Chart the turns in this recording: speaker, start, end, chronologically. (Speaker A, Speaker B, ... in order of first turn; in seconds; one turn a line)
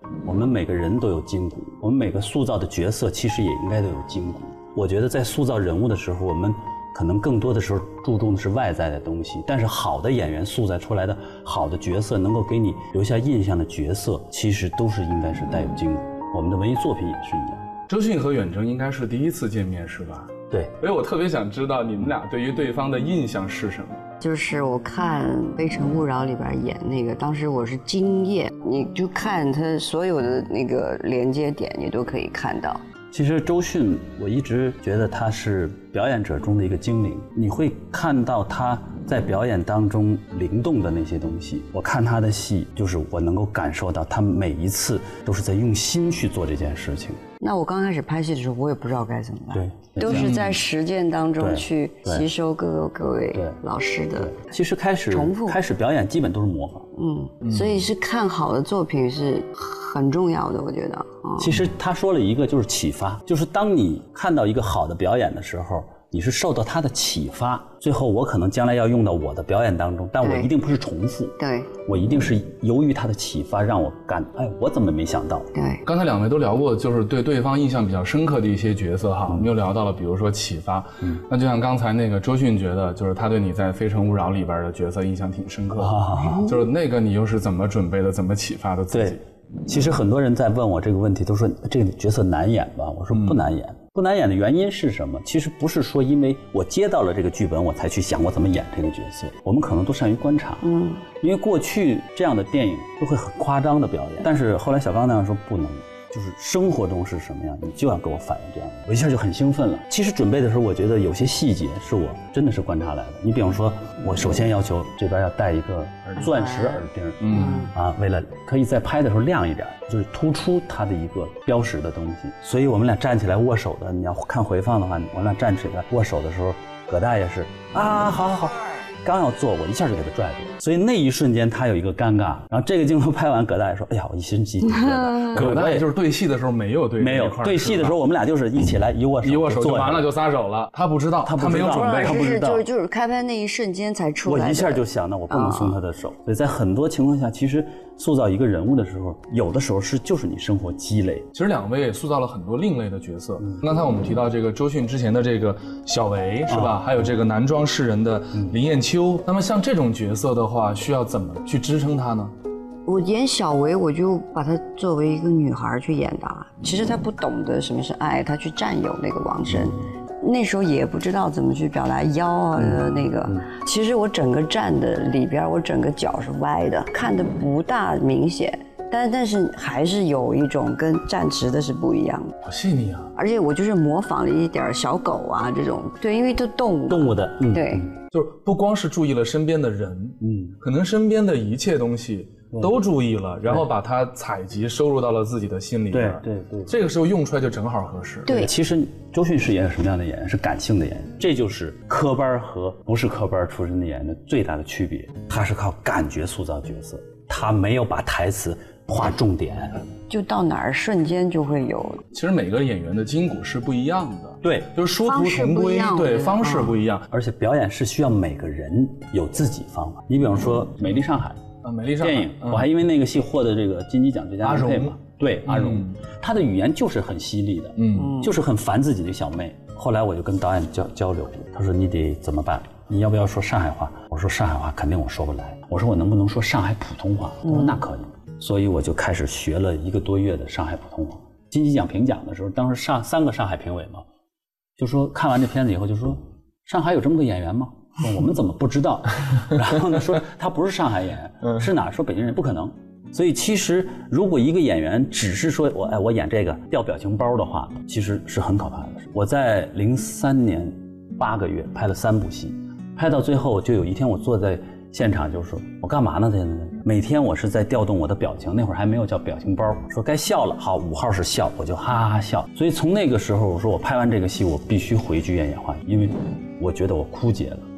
Speaker A: 0.2-17.7
Speaker B: 17.9-24.0
Speaker C: 24.2-32.8
Speaker A: 33.1-47.2
Speaker C: 47.4-54.4
Speaker A: 49.5-50.3
Speaker B: 50.1-50.6
Speaker A: 51.4-52.3
Speaker A: 53.3-53.6
Speaker A: 54.2-56.9
Speaker C: 55.1-55.6
Speaker C: 56.9-61.6
Speaker B: 57.4-57.8
Speaker A: 61.4-71.3
Speaker C: 70.2-70.5
Speaker C: 71.4-71.7
Speaker A: 71.8-75.5
Speaker C: 75.5-75.8
Speaker B: 75.8-89.2
Speaker A: 85.8-86.5
Speaker A: 88.9-100.6
Speaker B: 93.1-93.4
Speaker C: 100.6-101.1
Speaker A: 101.2-135.9
Speaker C: 116.2-117.5
Speaker B: 117.2-117.7
Speaker C: 134.6-135.5
Speaker B: 135.3-138.0
Speaker A: 137.0-140.1
Speaker B: 139.2-142.2
Speaker A: 141.2-142.7
Speaker C: 141.5-145.8
Speaker A: 144.2-151.2
Speaker B: 151.3-162.3
Speaker A: 156.5-156.8
Speaker C: 162.8-182.3
Speaker B: 182.4-183.1
Speaker C: 183.1-187.9
Speaker A: 186.9-187.9
Speaker B: 188.1-198.4
Speaker A: 190.2-190.6
Speaker A: 195.9-196.7
Speaker C: 198.3-198.5
Speaker A: 198.3-209.8
Speaker C: 210.1-212.0
Speaker B: 212.1-217.1
Speaker A: 214.4-214.7
Speaker C: 215.0-216.8
Speaker A: 217.1-221.4
Speaker B: 221.6-222.7
Speaker A: 222.0-244.0
Speaker B: 224.4-224.9
Speaker B: 225.4-225.9
Speaker B: 227.8-228.1
Speaker C: 227.9-228.3
Speaker C: 237.4-237.8
Speaker A: 244.8-277.6